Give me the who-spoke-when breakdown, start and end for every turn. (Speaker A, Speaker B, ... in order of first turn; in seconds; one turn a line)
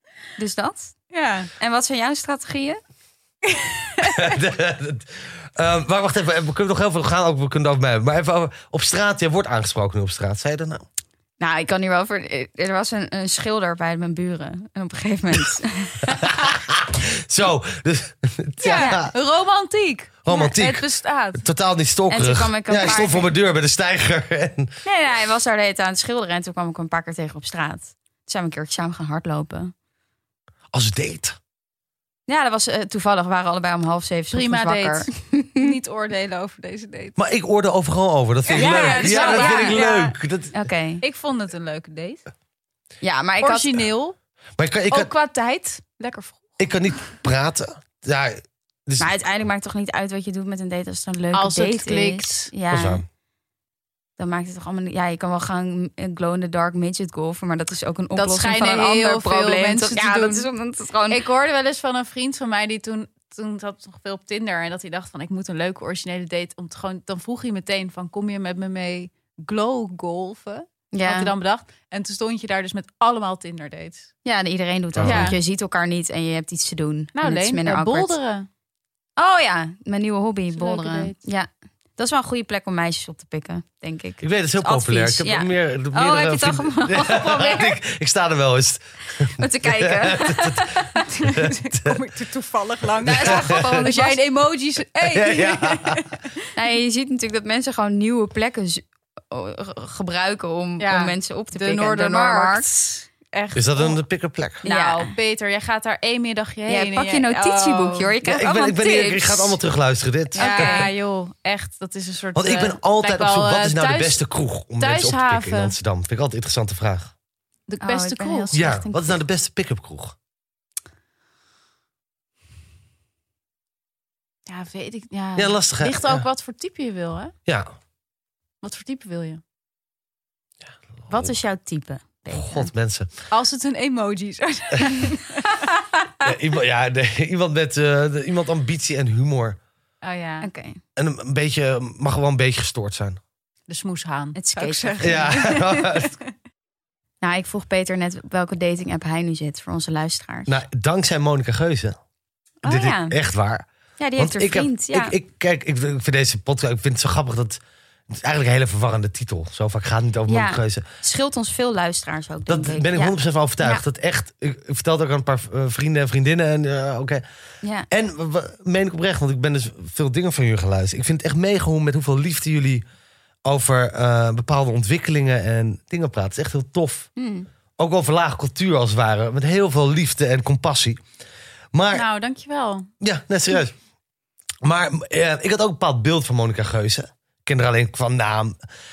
Speaker A: 0.4-1.0
Speaker B: 1.1-1.5
Speaker A: 1.6-2.8
Speaker B: 3.5-4.2
Speaker C: 4.0-10.8
Speaker A: 11.4-16.6
Speaker C: 16.1-19.1
Speaker B: 18.6-21.4
Speaker A: 18.7-19.0
Speaker C: 20.2-24.7
Speaker A: 22.1-23.3
Speaker A: 24.9-29.7
Speaker C: 30.7-31.4
Speaker A: 32.3-35.7
Speaker B: 34.3-37.2
Speaker C: 37.2-40.6
Speaker B: 38.5-40.2
Speaker A: 38.5-39.8
Speaker A: 40.5-41.0
Speaker B: 41.0-42.2
Speaker A: 43.0-43.8
Speaker B: 43.4-44.2
Speaker C: 44.6-45.1
Speaker B: 44.9-46.7
Speaker C: 46.6-49.1
Speaker A: 49.0-53.0
Speaker B: 51.3-52.5
Speaker C: 52.7-53.0
Speaker A: 54.2-61.2
Speaker B: 58.1-60.5
Speaker B: 61.1-74.1
Speaker A: 70.9-71.3
Speaker A: 74.2-78.2
Speaker C: 75.0-75.4
Speaker B: 75.0-75.4
Speaker B: 77.2-78.5
Speaker A: 79.2-87.8
Speaker B: 80.5-81.2
Speaker C: 84.2-92.0
Speaker A: 89.4-91.1
Speaker B: 91.0-96.2
Speaker C: 93.0-93.9
Speaker A: 93.0-94.2
Speaker C: 95.0-96.0
Speaker A: 96.5-102.7
Speaker B: 100.8-104.0
Speaker C: 103.5-104.6
Speaker B: 104.6-108.2
Speaker A: 104.7-105.1
Speaker A: 106.7-109.6
Speaker C: 108.2-110.9
Speaker A: 110.3-110.9
Speaker B: 110.4-114.2
Speaker C: 112.3-117.1
Speaker B: 114.8-115.8
Speaker B: 117.7-118.5
Speaker A: 117.8-119.2
Speaker C: 118.5-120.2
Speaker B: 124.5-127.3
Speaker C: 125.4-126.2
Speaker B: 128.6-129.4
Speaker A: 131.1-132.7
Speaker C: 132.3-133.1
Speaker B: 133.3-135.8
Speaker C: 136.2-139.6
Speaker B: 140.0-140.5
Speaker A: 140.4-140.8
Speaker C: 141.0-143.2
Speaker B: 143.7-146.3
Speaker A: 144.3-145.5
Speaker C: 145.0-146.1
Speaker A: 147.2-150.5
Speaker C: 150.5-152.0
Speaker A: 152.6-153.2
Speaker C: 152.7-153.7
Speaker A: 154.0-155.2
Speaker C: 154.2-157.6
Speaker C: 158.1-160.8
Speaker A: 160.3-163.8
Speaker C: 162.5-167.2
Speaker A: 167.6-167.9
Speaker C: 167.9-172.8
Speaker C: 173.5-177.1
Speaker A: 177.2-177.5
Speaker C: 177.8-181.0
Speaker C: 181.7-182.1
Speaker B: 181.9-182.9
Speaker C: 183.0-183.8
Speaker C: 184.6-188.6